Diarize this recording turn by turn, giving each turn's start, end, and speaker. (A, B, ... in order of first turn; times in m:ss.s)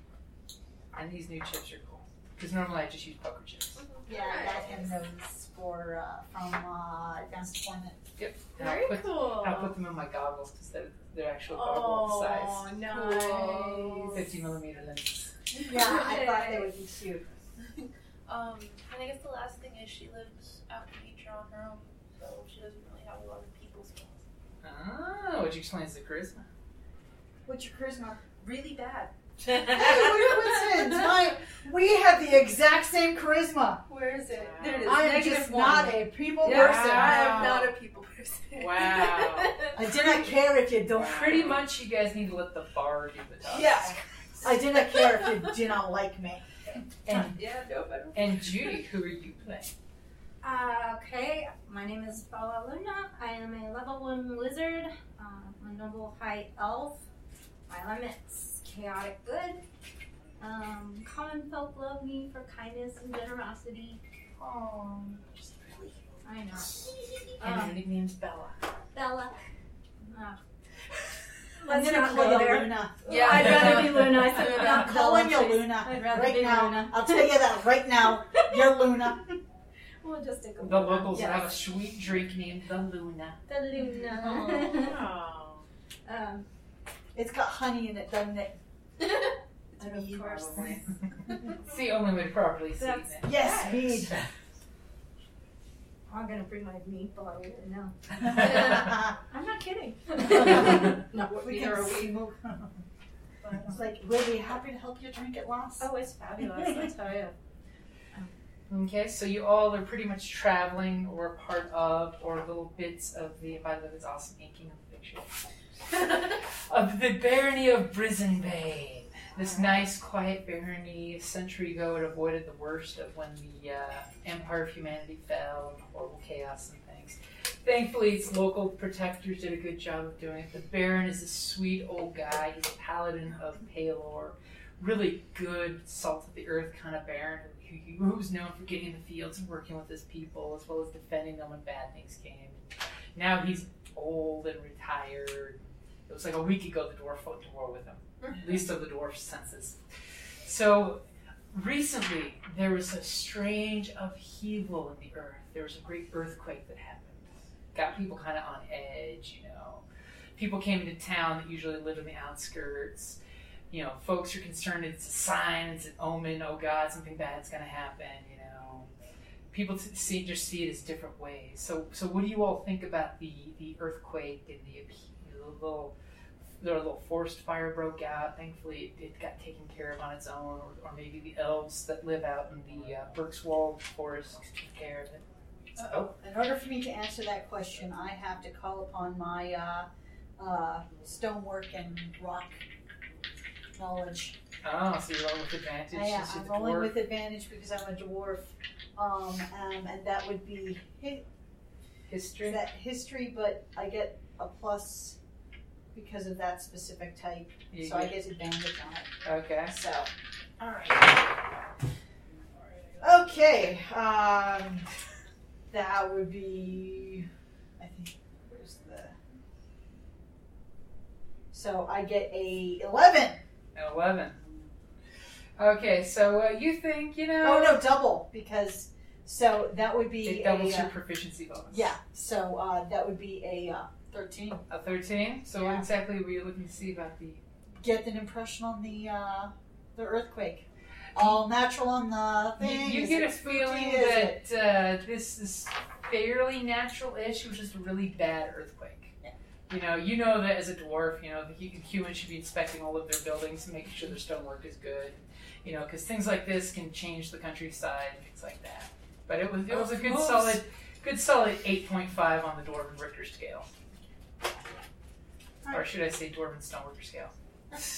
0:00.9-0:03.8 A
0:03.8-0:04.7 B
0:04.1-0:08.0 C
0:04.1-0:04.8 D
0:08.2-0:12.7 A
0:08.6-0:09.7 B
0:11.5-0:14.2 B
0:12.8-0:14.1 C
0:13.2-0:14.1 D
0:14.1-0:15.4 A
0:15.6-0:16.7 B
0:15.6-0:17.3 C
0:15.7-0:16.2 D
0:17.6-0:24.2 B
0:24.6-0:26.5 A
0:27.5-0:28.2 C
0:28.4-0:29.1 B
0:29.4-0:33.8 C
0:33.9-0:40.1 B
0:34.3-0:35.1 E
0:34.8-0:37.5 C
0:36.4-0:37.7 E
0:38.6-0:39.5 E
0:39.8-0:41.6 C
0:40.9-0:41.6 E
0:41.0-0:44.0 A
0:43.5-0:45.4 B
0:44.4-0:46.5 C
0:47.1-0:47.4 A
0:47.3-0:48.8 B
0:48.1-0:49.7 A
0:50.4-0:57.0 D
0:57.7-0:59.6 D
1:00.4-1:04.0 D
1:04.4-1:06.0 A
1:06.2-1:07.8 D
1:06.6-1:08.6 A
1:08.9-1:09.4 D
1:10.0-1:10.4 D
1:11.6-1:17.4 D
1:11.6-1:13.8 C
1:13.0-1:14.4 B
1:13.1-1:14.5 A
1:14.5-1:19.4 C
1:18.3-1:18.7 D
1:20.0-1:21.6 D
1:20.6-1:23.4 A
1:23.5-1:25.1 D
1:24.1-1:24.8 C
1:24.7-1:25.6 E
1:26.0-1:26.5 D
1:27.1-1:28.6 C
1:29.0-1:30.8 D
1:29.8-1:30.8 C
1:31.6-1:34.3 A
1:33.2-1:34.2 C
1:36.1-1:42.1 D
1:38.2-1:39.1 C
1:40.2-1:42.8 C
1:43.6-1:45.9 C
1:45.8-1:47.3 D
1:48.7-2:29.8 A
2:30.4-2:39.8 A
2:40.4-2:43.2 A
2:43.7-2:48.9 A
2:49.5-2:55.9 A
2:56.6-3:05.2 A
3:05.8-3:06.1 A
3:05.9-3:12.6 C
3:13.8-3:14.4 C
3:14.6-3:17.0 A
3:15.9-3:21.2 C
3:22.1-3:22.6 A
3:22.4-3:25.2 C
3:25.9-3:29.1 C
3:27.7-3:28.2 A
3:29.2-3:29.7 A
3:29.7-3:31.3 C
3:33.0-3:34.9 C
3:35.7-3:37.3 C
3:37.8-3:39.2 C
3:41.5-3:43.4 C
3:43.8-3:44.4 A
3:45.6-3:47.9 A
3:47.4-3:50.9 C
3:50.2-3:51.9 A
3:51.7-3:54.6 C
3:54.7-3:57.4 A
3:55.5-3:55.8 C
3:57.8-4:04.4 C
4:02.6-4:09.1 A
4:09.7-4:23.7 A
4:19.7-4:20.6 E
4:25.6-4:25.9 C
4:25.7-4:27.3 A